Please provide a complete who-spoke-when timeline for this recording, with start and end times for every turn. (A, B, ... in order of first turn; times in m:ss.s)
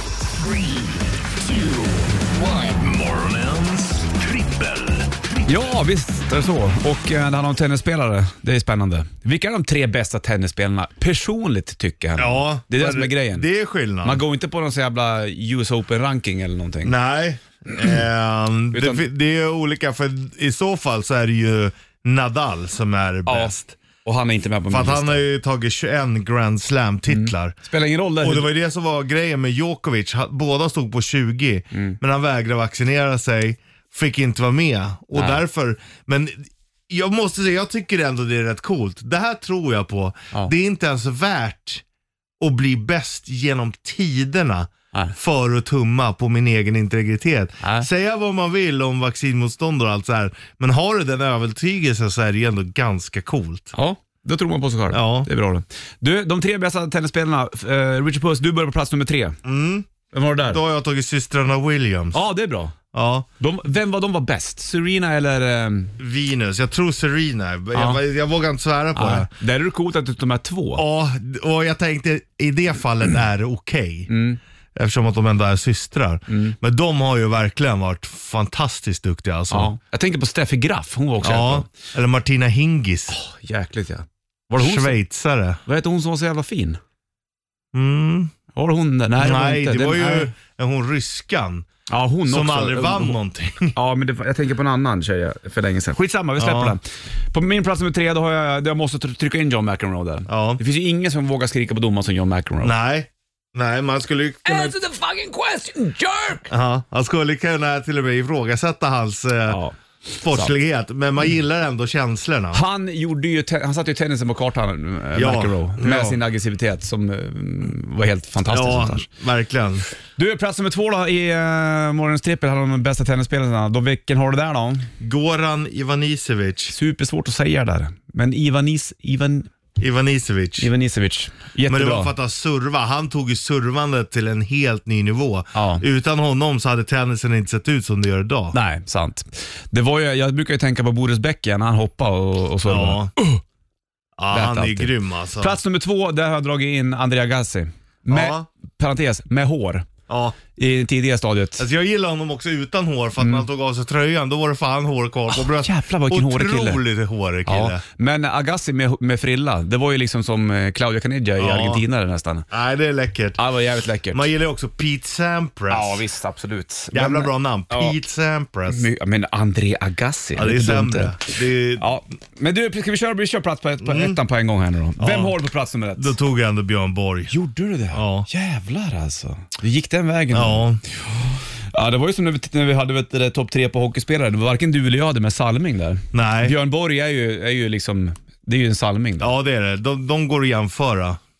0:00.4-0:05.5 A
0:05.4-0:13.4 B
0:12.2-0:14.2 C
0:14.0-0:16.9 B
0:16.8-0:23.8 C
0:18.7-0:19.0 B
0:23.3-0:25.2 B
0:24.7-0:27.6 C
0:27.1-0:28.5 B
0:28.2-0:41.8 C
0:31.7-0:32.0 B
0:35.1-0:35.4 B
0:42.4-0:53.7 C
0:47.6-0:47.9 B
0:53.7-0:59.4 B
0:54.9-0:55.3 C
0:59.4-0:59.9 C
1:00.1-1:00.6 B
1:00.5-1:02.2 C
1:02.1-1:02.8 B
1:02.9-1:03.3 C
1:03.4-1:06.0 B
1:06.0-1:09.3 C
1:07.8-1:08.0 B
1:09.0-1:10.8 B
1:10.8-1:14.1 C
1:14.1-1:14.4 B
1:14.8-1:19.7 C
1:16.3-1:16.6 B
1:19.5-1:21.7 B
1:21.2-1:23.2 C
1:23.1-1:25.0 B
1:24.6-1:25.6 C
1:25.6-1:26.8 B
1:27.7-1:28.3 C
1:28.5-1:30.3 B
1:29.2-1:31.7 C
1:31.9-1:33.2 B
1:32.3-1:33.7 C
1:33.7-1:42.7 B
1:36.4-1:36.8 C
1:40.3-1:40.6 C
1:42.6-1:44.8 C
1:44.4-1:46.5 B
1:46.5-1:49.6 C
1:49.5-1:49.8 B
1:50.1-1:52.6 C
1:52.5-1:59.1 B
1:55.1-1:56.2 C
1:58.5-1:59.8 C
2:00.2-2:04.9 B
2:05.0-2:06.7 C
2:06.7-2:09.5 B
2:09.8-2:10.7 C
2:10.6-2:12.1 B
2:11.6-2:18.6 C
2:15.5-2:15.8 B
2:18.5-2:23.4 B
2:22.6-2:23.1 C
2:24.2-2:25.6 C
2:24.3-2:29.9 B
2:28.1-2:28.5 C
2:30.1-2:30.4 C
2:30.5-2:31.6 B
2:31.6-2:37.8 C
2:33.2-2:33.4 B
2:35.3-2:36.8 B
2:37.4-2:42.4 B
2:41.4-2:41.8 C
2:42.5-2:43.4 C
2:43.4-2:44.3 B
2:44.1-2:46.0 C
2:45.7-2:48.0 B
2:46.9-2:48.9 C
2:48.7-2:56.1 B
2:50.4-2:51.8 C
2:53.8-2:54.2 C
2:55.0-2:55.4 C
2:56.0-2:57.3 C
2:57.3-3:09.3 B
2:57.9-2:58.3 C
3:00.3-3:00.8 C
3:06.1-3:06.6 C
3:09.2-3:11.2 C